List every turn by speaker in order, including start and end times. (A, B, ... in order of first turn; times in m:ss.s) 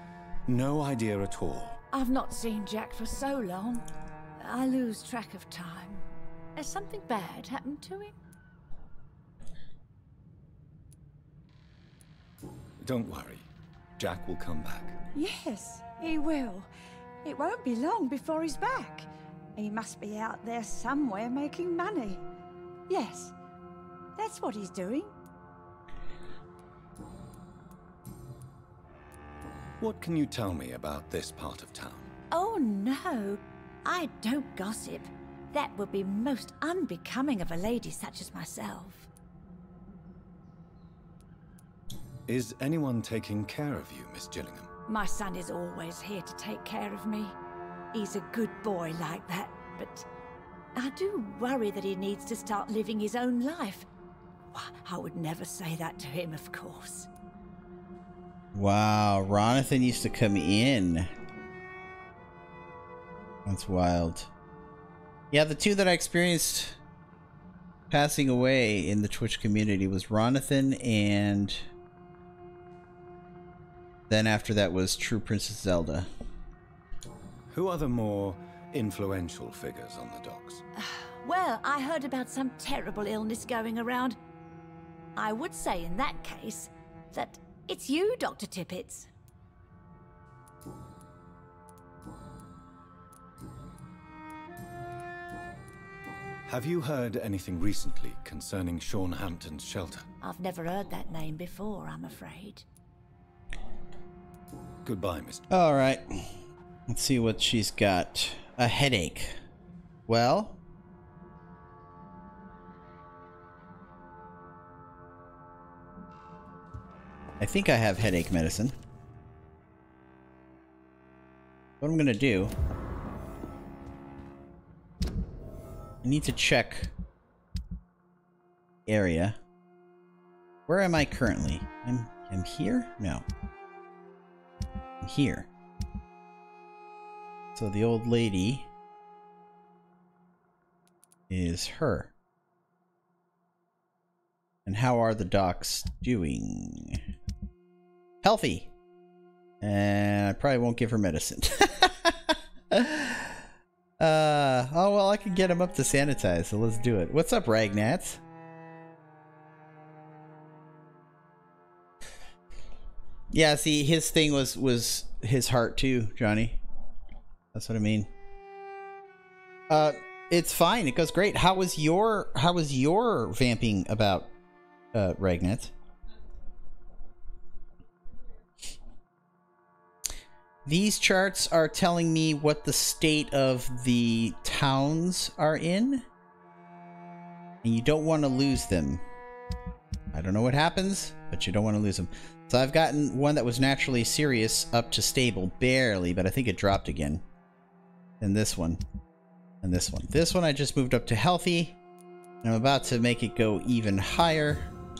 0:00.5-0:01.8 A
0:01.9-0:03.9 B
0:04.4-0:06.0 B
0:06.6-0:08.1 B
0:12.8-0:13.5 A
0:14.0-0:15.0 A
0:15.1-0:16.7 B
0:17.2-0:22.2 B
0:22.9-0:23.3 B
0:24.2-0:25.1 B
0:29.8-0:32.1 A
0:32.3-0:39.1 B
0:42.3-0:44.7 A
0:44.9-0:47.4 B
0:47.9-0:50.1 B
0:50.8-0:53.9 B
0:54.5-0:57.1 B
0:58.5-1:01.1 C
1:03.4-1:04.3 C
1:05.3-1:06.8 C
1:07.9-1:11.7 C
1:14.1-1:16.1 C
1:17.5-1:20.6 A
1:20.8-1:24.2 B
1:25.2-1:29.1 B
1:36.4-1:40.1 A
1:40.2-1:42.6 B
1:44.8-1:45.5 A
1:45.5-1:46.3 C
1:46.9-1:49.4 C
1:50.1-1:50.6 C
1:57.4-1:58.8 C
2:01.8-2:02.5 C
2:06.0-2:06.9 C
2:08.9-2:09.4 C
2:10.7-2:13.2 C
2:15.0-2:15.5 C
2:17.6-2:18.7 C
2:21.3-2:22.1 C
2:24.7-2:27.0 C
2:28.2-2:28.7 C
2:29.6-2:33.4 C
2:34.0-2:38.2 C
2:43.3-2:46.6 C
2:47.5-2:48.1 C
2:49.7-2:54.3 C
2:54.9-2:55.7 C
3:00.7-3:06.0 C
3:07.6-3:09.0 C
3:10.1-3:17.2 C
3:18.2-3:18.8 C
3:19.6-3:21.8 C
3:22.4-3:24.7 C